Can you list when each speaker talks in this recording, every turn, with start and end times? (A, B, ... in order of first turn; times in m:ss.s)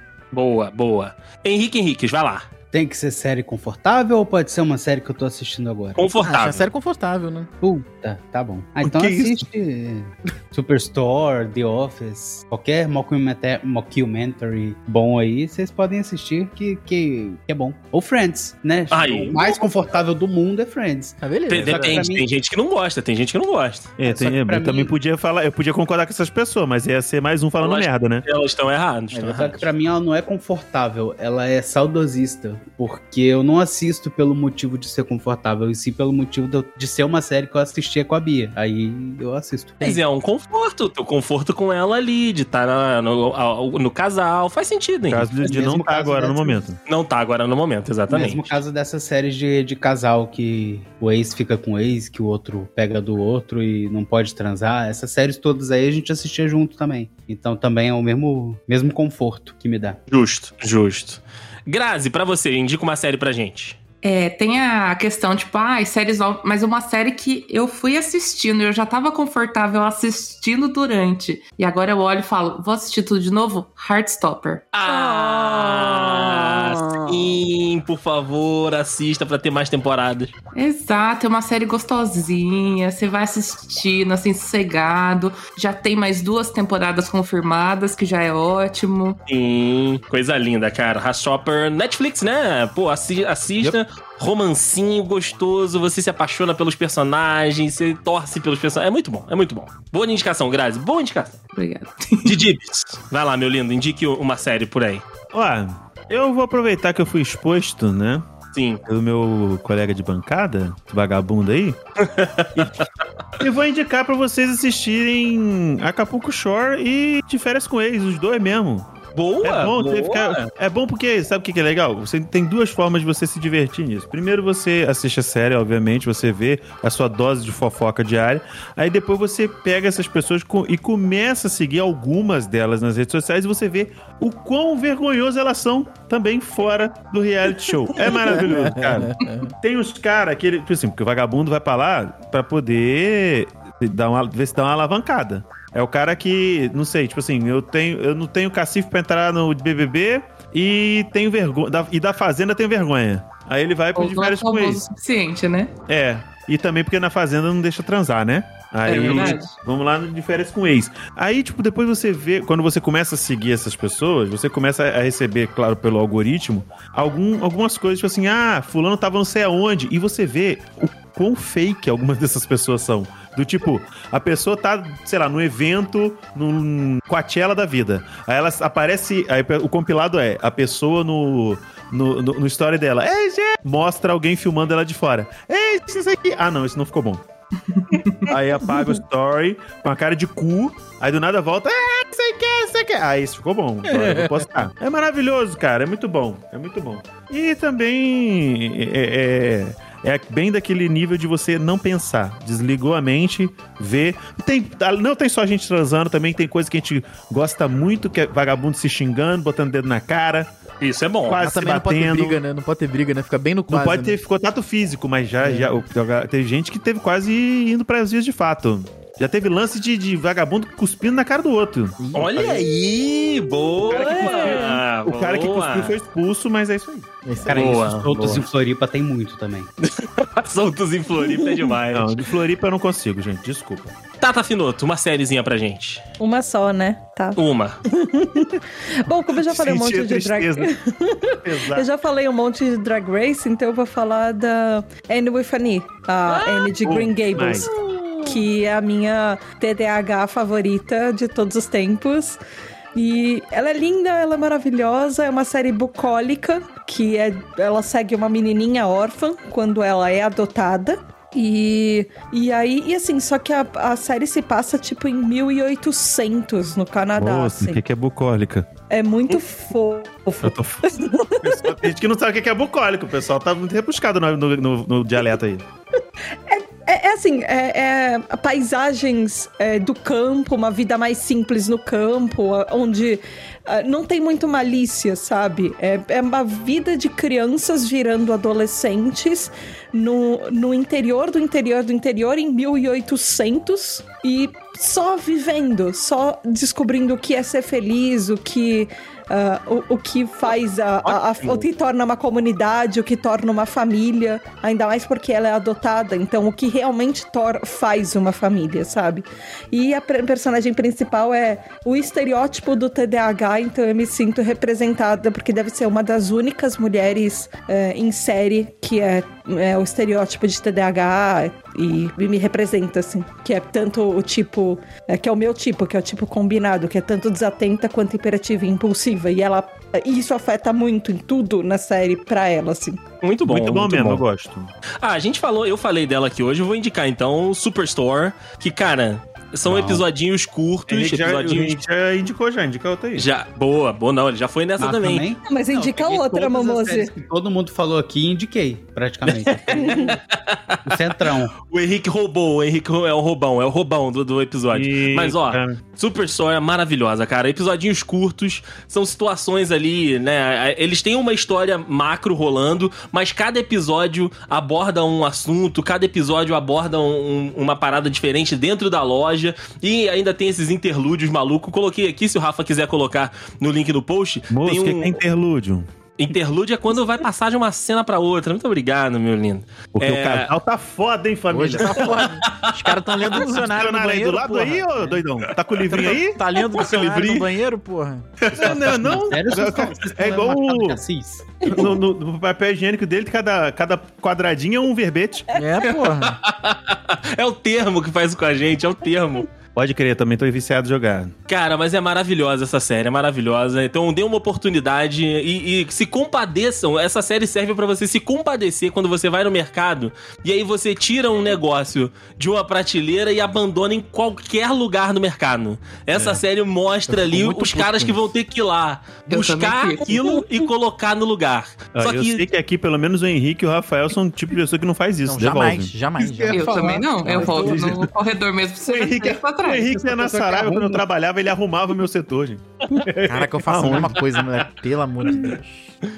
0:00.3-0:02.5 A
0:02.7-0:06.0 B
0:06.0-0:06.7 A
0:06.2-0:07.5 C
0:07.6-0:22.3 B
0:08.8-0:09.4 D
0:18.9-0:19.6 A
0:21.2-0:21.7 C
0:21.5-0:23.9 A
0:21.6-0:22.0 D
0:24.0-0:28.2 D
0:24.0-0:24.9 B
0:27.6-0:29.6 A
0:29.1-0:29.6 C
0:29.3-0:39.9 B
0:39.8-0:45.3 A
0:45.1-0:46.8 D
0:45.4-0:46.6 B
0:46.8-0:48.6 A
0:48.1-1:00.0 B
1:00.1-1:03.8 A
1:04.0-1:15.9 E
1:14.7-1:20.3 A
1:20.5-1:29.2 E
1:29.3-1:41.4 A
1:41.5-1:42.4 E
1:42.2-1:45.0 A
1:45.3-1:48.2 D
1:48.5-1:48.8 A
1:48.8-1:51.8 D
1:52.0-1:52.9 A
1:53.4-1:58.9 D
1:59.1-2:00.5 A
1:59.4-2:34.8 D
2:18.0-2:19.5 C
2:33.9-2:35.7 E
2:35.9-3:07.2 D
2:38.8-2:39.5 E
2:39.0-2:39.4 A
3:07.7-3:08.2 E
3:08.2-3:30.5 D
3:13.9-3:14.7 C
3:30.8-3:31.4 A
3:31.2-3:32.4 D
3:31.4-3:34.2 C
3:33.7-3:42.7 D
3:35.4-3:35.7 C
3:42.0-3:42.3 C
3:42.1-3:46.0 A
3:43.8-3:47.1 D
3:43.8-3:44.8 F
3:47.2-3:47.5 C
3:47.4-3:49.7 B
3:47.5-3:48.4 A
3:49.8-3:52.2 A
3:51.9-3:53.9 D
3:54.2-3:56.0 A
3:56.2-4:12.4 F
3:57.4-3:57.8 A
3:59.4-4:00.7 D
4:01.4-4:01.9 D
4:06.2-4:06.7 A
4:06.8-4:07.7 D
4:07.6-4:08.4 A
4:12.9-4:27.8 F
4:27.1-4:28.7 D
4:28.9-4:31.6 F
4:30.4-4:30.8 D
4:31.4-4:35.6 D
4:36.5-5:33.0 F
5:01.0-5:01.6 A
5:33.2-5:34.2 A
5:33.5-5:34.7 D
5:35.0-5:41.8 A
5:39.6-5:40.0 D
5:40.9-5:43.2 D
5:43.2-5:45.3 A
5:44.8-5:50.2 B
5:45.4-5:47.1 F
5:49.2-5:51.0 A
5:49.7-5:50.1 F
5:50.8-5:51.6 B
5:51.6-6:15.2 A
5:54.7-5:55.8 D
6:14.5-6:15.9 D
6:16.2-6:20.5 A
6:20.0-6:22.2 D
6:21.5-6:25.2 C
6:22.1-6:23.7 A
6:23.3-6:26.4 D
6:25.4-6:26.2 A
6:25.9-6:28.2 C
6:26.7-6:27.5 A
6:28.4-6:29.3 A
6:28.5-6:31.0 D
6:28.5-6:31.8 B
6:31.6-6:35.4 D
6:35.5-6:36.4 C
6:35.9-6:39.4 A
6:39.7-6:41.3 D
6:41.5-7:02.4 A
6:56.1-6:56.4 D
6:57.1-6:58.3 C
6:59.2-7:00.6 E
7:01.9-7:05.9 D
7:05.2-7:07.9 C
7:06.2-7:08.0 B
7:06.5-7:11.0 E
7:07.3-7:08.1 D
7:08.9-7:14.6 D
7:13.2-7:15.9 C